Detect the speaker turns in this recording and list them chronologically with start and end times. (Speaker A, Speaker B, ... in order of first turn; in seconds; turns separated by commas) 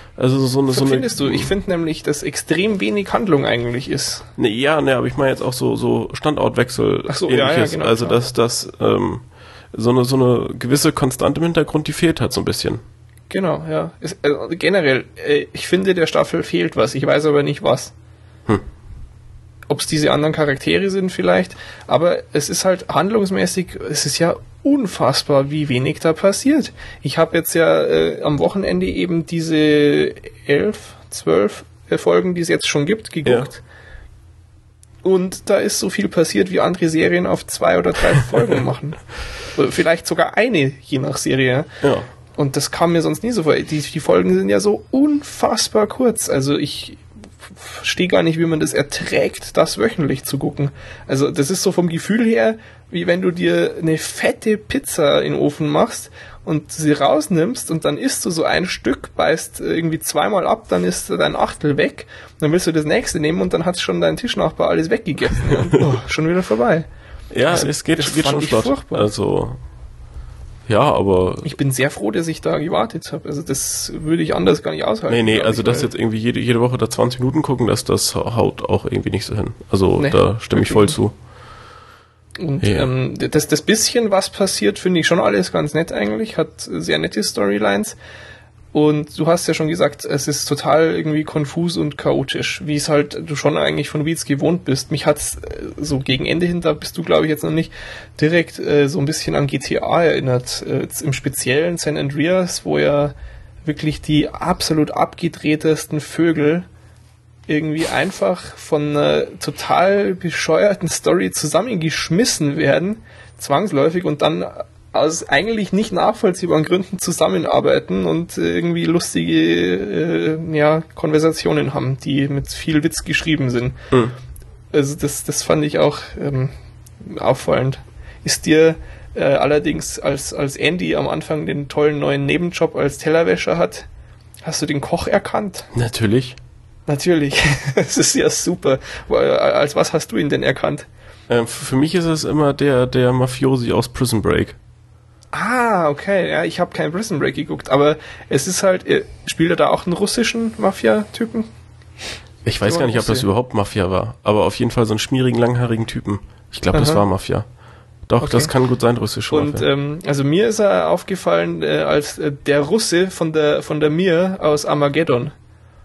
Speaker A: 0.1-1.5, Speaker B: 0.7-4.3, Speaker A: 4.4-12.8, Speaker B: 7.1-8.2, Speaker B: 13.3-17.9, Speaker B: 19.7-33.6, Speaker B: 35.0-39.0, Speaker B: 39.5-41.7, Speaker A: 41.8-42.1, Speaker B: 42.4-66.9, Speaker A: 67.3-69.6, Speaker B: 67.5-69.1, Speaker A: 70.7-71.5, Speaker B: 71.4-75.9, Speaker A: 75.1-81.1, Speaker B: 80.0-81.0, Speaker B: 82.4-88.0, Speaker A: 82.6-82.9, Speaker B: 88.7-106.7, Speaker B: 107.5-123.8, Speaker B: 124.7-133.9, Speaker B: 134.4-135.7, Speaker A: 135.7-136.4, Speaker B: 136.9-140.9, Speaker A: 141.3-144.6, Speaker B: 145.3-151.5, Speaker A: 152.4-157.4, Speaker B: 152.7-153.2, Speaker B: 156.7-157.0, Speaker A: 158.1-159.7, Speaker B: 158.2-158.5, Speaker B: 159.3-165.3